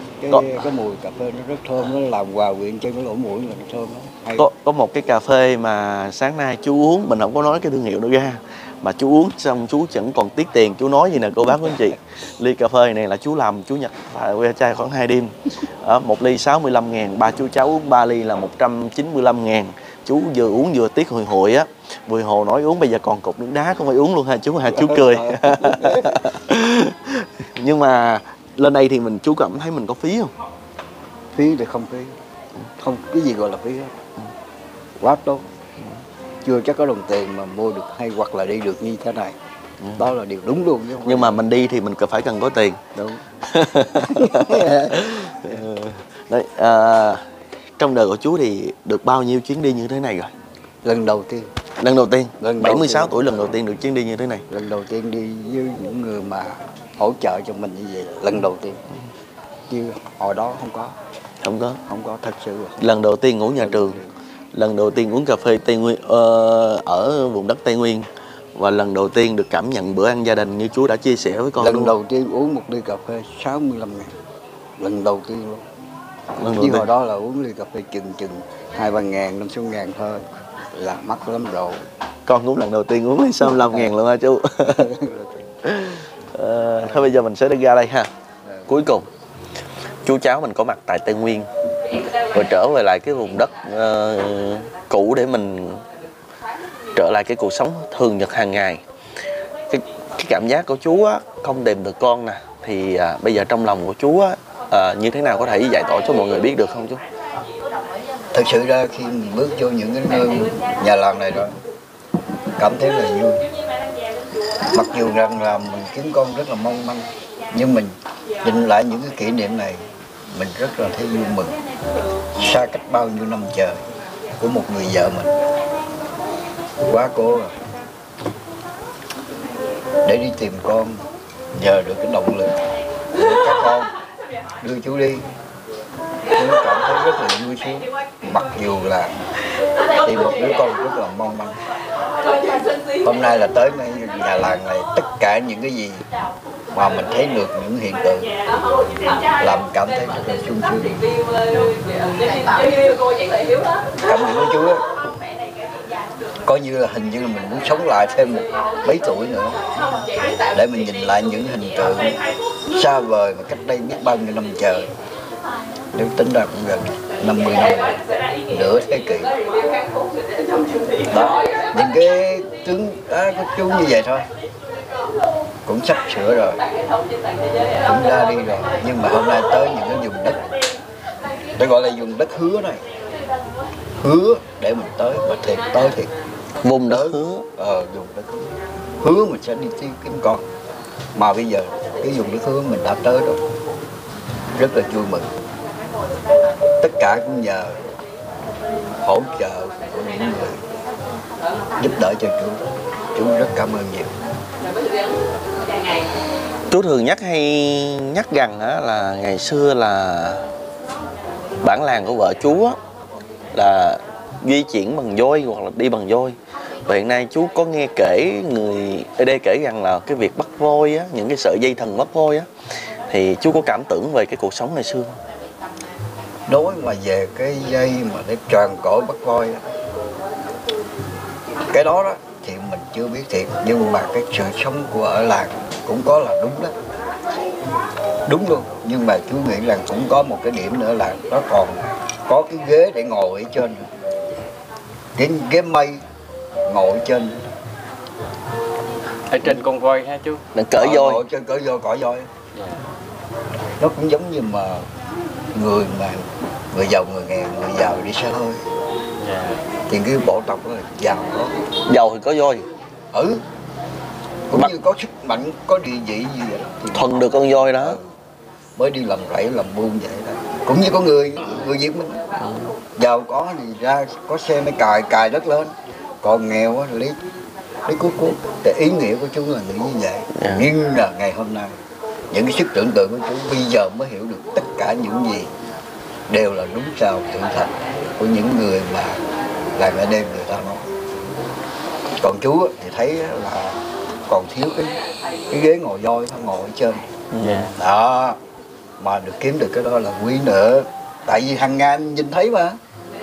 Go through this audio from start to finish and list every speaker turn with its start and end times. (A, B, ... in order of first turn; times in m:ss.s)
0:00.2-0:04.5 A
0:00.3-0:00.7 B
0:04.4-0:30.3 B
0:24.7-0:26.2 A
0:31.3-0:32.2 A
0:32.8-0:34.0 A
0:35.0-0:35.5 A
0:36.4-0:39.4 A
0:40.0-0:41.4 A
0:41.0-0:47.2 B
0:43.0-0:43.2 A
0:43.9-0:45.0 A
0:47.8-0:50.3 B
0:50.8-0:51.5 A
0:51.8-0:54.4 B
0:52.4-0:53.2 A
0:54.5-0:58.8 A
0:59.7-1:01.0 A
1:01.4-1:01.8 B
1:01.9-1:02.8 A
1:02.8-1:04.0 B
1:03.6-1:04.1 A
1:04.5-1:11.9 B
1:11.6-1:14.2 A
1:14.8-1:15.7 A
1:16.4-1:16.9 B
1:16.6-1:21.9 A
1:22.3-1:24.9 B
1:23.4-1:23.9 A
1:24.6-1:25.5 A
1:25.6-1:28.1 B
1:26.8-1:27.1 A
1:28.7-1:29.1 B
1:30.0-1:31.5 B
1:32.3-1:35.8 B
1:37.0-1:38.8 B
1:39.7-1:47.0 B
1:48.3-1:51.6 A
1:52.6-1:53.4 A
1:54.7-2:01.6 A
2:02.4-2:03.8 A
2:04.4-2:05.4 A
2:06.9-2:07.6 A
2:10.0-2:12.6 A
2:13.1-2:13.9 A
2:14.6-2:15.2 A
2:16.4-2:19.1 A
2:20.0-2:21.6 A
2:23.0-2:26.1 A
2:26.7-2:28.3 A
2:29.4-2:31.0 A
2:34.0-2:34.8 A
2:36.4-2:39.6 A
2:40.5-2:44.9 A
2:45.9-2:49.4 A
2:51.1-2:54.3 A
2:55.6-2:56.6 A
2:57.8-3:00.4 A
3:01.6-3:02.8 A
3:04.0-3:06.1 A
3:06.6-3:07.4 B
3:06.9-3:10.4 A
3:11.2-3:13.4 A
3:14.6-3:15.3 A
3:16.8-3:17.8 A
3:19.0-3:20.6 A
3:21.8-3:24.1 A
3:26.7-3:30.4 B
3:31.6-3:32.8 B
3:33.5-3:42.5 B
3:43.1-3:45.2 B
3:46.5-3:49.6 A
3:51.7-3:56.8 A
3:58.3-4:03.9 A
4:05.2-4:06.0 A
4:06.7-4:07.4 A
4:09.3-4:10.4 C
4:10.5-4:11.2 B
4:10.8-4:12.3 A
4:12.5-4:12.8 C
4:13.8-4:14.9 A
4:15.5-4:18.6 A
4:19.2-4:19.6 C
4:19.9-4:21.5 A
4:21.9-4:22.7 B
4:23.1-4:23.4 A
4:24.5-4:28.0 A
4:26.9-4:28.0 B
4:28.8-4:32.2 A
4:33.0-4:37.2 A
4:37.9-4:41.7 A
4:40.3-4:40.7 B
4:42.3-4:45.5 A
4:46.3-4:49.2 A
4:49.8-4:50.9 A
4:52.2-4:55.0 A
4:55.5-4:57.0 A
4:57.3-4:57.7 B
4:57.4-4:57.8 C
4:57.8-4:58.4 A
4:59.0-5:02.8 A